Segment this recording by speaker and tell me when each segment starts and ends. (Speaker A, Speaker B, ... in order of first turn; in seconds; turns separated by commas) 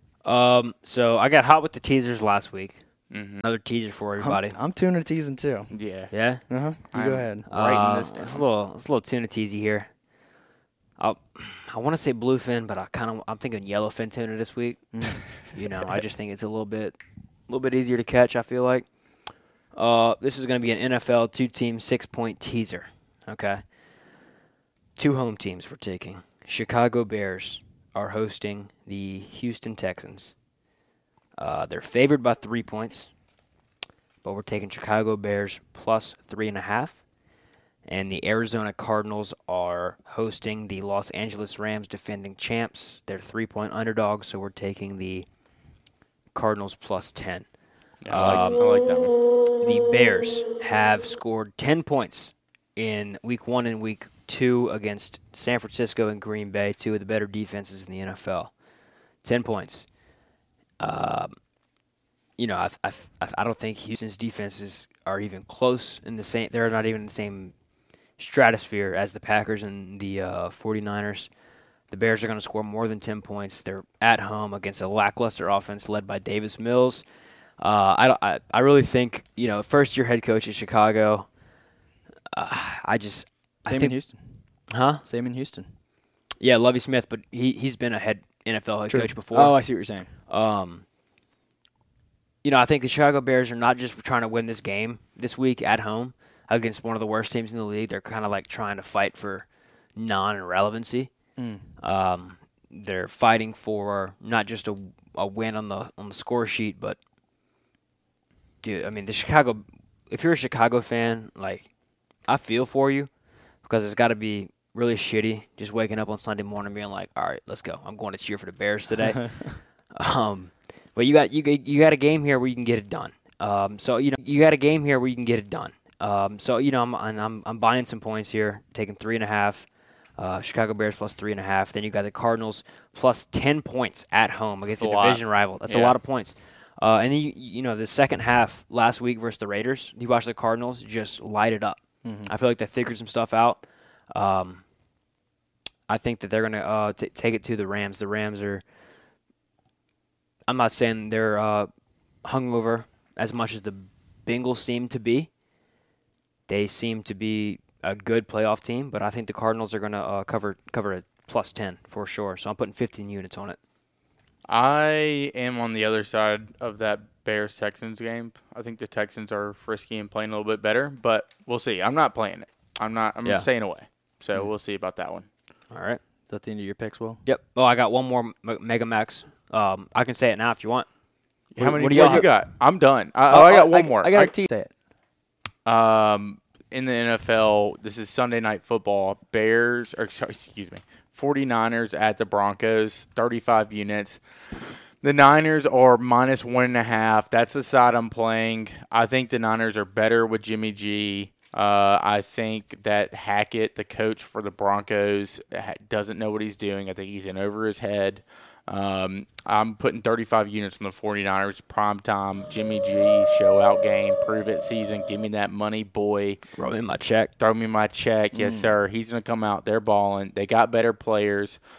Speaker A: 0.2-2.8, Speaker B: 3.1-3.4, Speaker A: 3.4-4.5, Speaker C: 4.2-5.7, Speaker B: 5.7-6.1, Speaker A: 6.1-6.4, Speaker C: 6.5-7.5, Speaker B: 6.9-8.4, Speaker A: 7.5-9.9, Speaker A: 11.0-14.9, Speaker C: 14.9-15.2, Speaker A: 15.4-16.9, Speaker A: 17.5-18.9, Speaker A: 19.7-23.6, Speaker A: 25.0-30.3, Speaker A: 31.4-33.1, Speaker A: 34.2-37.0, Speaker A: 37.9-45.2, Speaker A: 46.3-47.5, Speaker B: 48.0-49.1, Speaker A: 48.1-48.6, Speaker A: 49.6-58.5, Speaker A: 59.2-59.9, Speaker A: 60.8-61.3, Speaker A: 62.4-67.5, Speaker A: 68.2-71.3, Speaker A: 71.9-77.0, Speaker A: 77.6-81.3, Speaker A: 82.3-84.0, Speaker C: 83.7-84.2, Speaker A: 84.7-85.0, Speaker C: 85.0-85.7, Speaker A: 86.4-89.6, Speaker C: 88.9-90.1, Speaker A: 90.3-90.8, Speaker A: 92.4-101.1, Speaker C: 101.4-101.6, Speaker A: 101.8-107.0, Speaker A: 108.6-111.7, Speaker A: 112.3-113.1, Speaker A: 113.6-119.3, Speaker A: 119.9-129.7, Speaker A: 130.2-144.6, Speaker B: 134.7-135.9, Speaker C: 142.0-142.3, Speaker A: 145.9-148.6, Speaker A: 150.5-151.7, Speaker A: 152.2-155.3, Speaker A: 156.5-163.6, Speaker B: 164.5-175.3, Speaker A: 175.7-176.0, Speaker C: 176.3-177.2, Speaker A: 177.2-180.9, Speaker B: 181.5-184.3, Speaker A: 181.6-182.3, Speaker C: 181.7-182.3, Speaker C: 183.3-184.7, Speaker B: 185.7-194.2, Speaker B: 195.0-216.4, Speaker A: 216.6-217.3, Speaker B: 217.4-221.6, Speaker C: 218.3-218.7